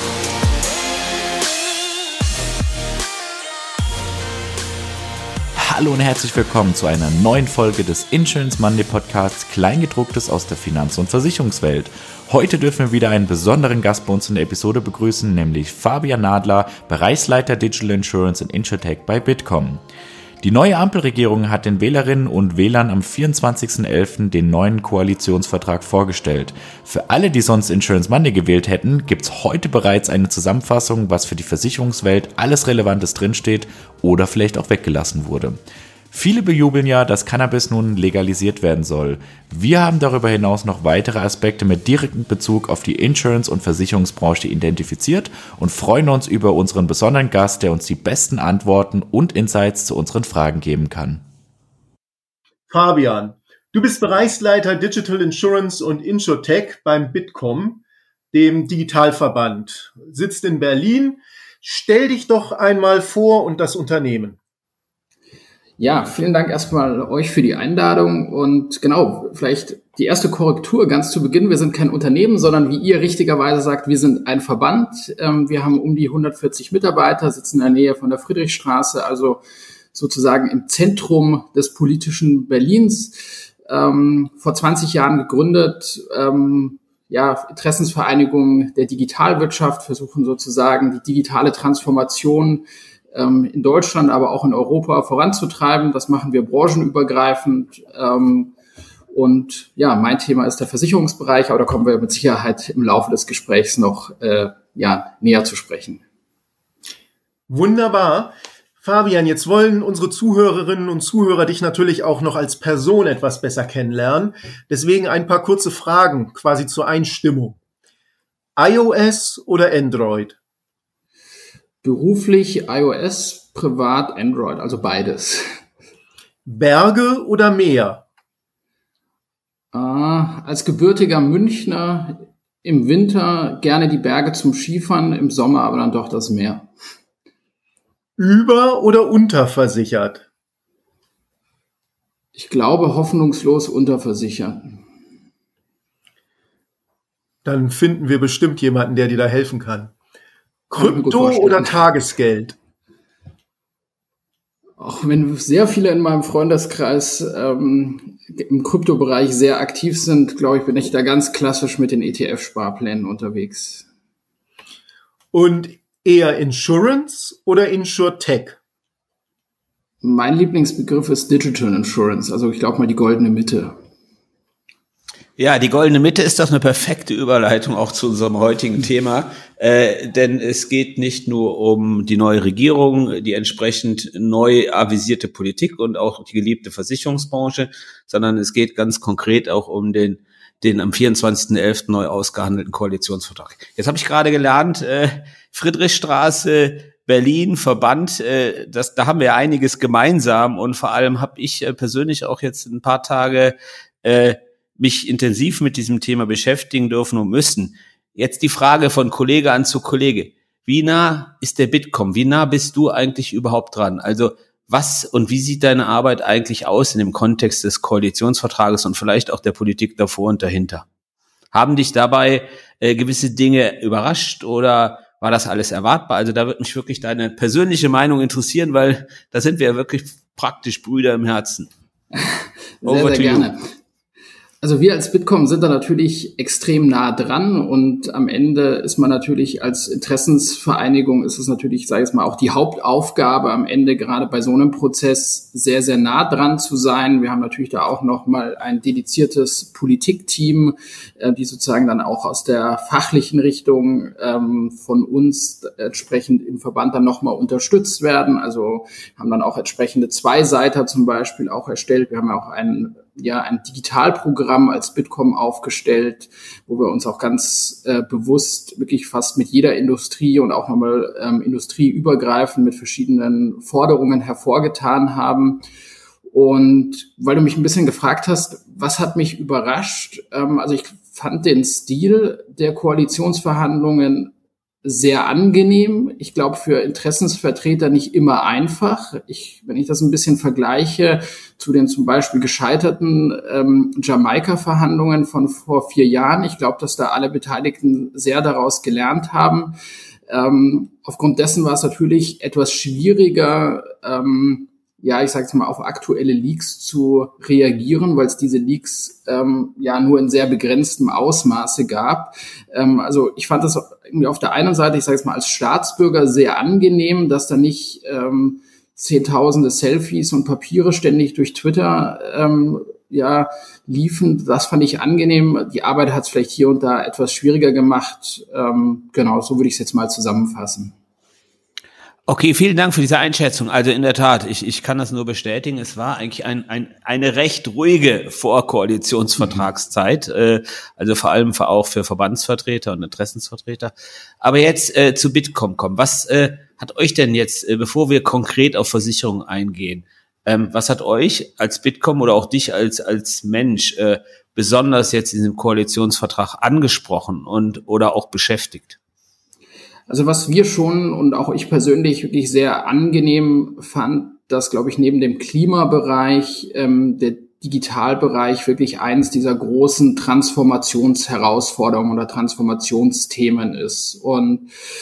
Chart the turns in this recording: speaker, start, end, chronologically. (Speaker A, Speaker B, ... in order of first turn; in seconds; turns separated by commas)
Speaker A: 5.6-19.8, Speaker A: 20.4-35.6, Speaker A: 36.1-51.2, Speaker B: 52.7-64.4, Speaker C: 65.8-79.4, Speaker C: 79.9-98.5, Speaker C: 99.1-106.0, Speaker B: 107.5-117.6, Speaker B: 118.6-120.3, Speaker C: 121.8-125.4, Speaker B: 126.5-128.0, Speaker C: 129.7-136.7, Speaker B: 138.2-140.2, Speaker C: 142.3-144.8, Speaker B: 147.4-149.9, Speaker B: 150.7-152.5, Speaker C: 150.8-151.8, Speaker C: 154.8-163.9, Speaker B: 165.3-168.6, Speaker C: 170.0-173.7, Speaker D: 175.4-220.8, Speaker D: 221.5-231.7, Speaker C: 232.1-233.7, Speaker D: 232.8-233.5, Speaker C: 234.6-275.6, Speaker C: 276.3-284.3, Speaker C: 284.8-299.7, Speaker C: 300.3-330.9, Speaker D: 332.3-359.0, Speaker C: 360.1-374.7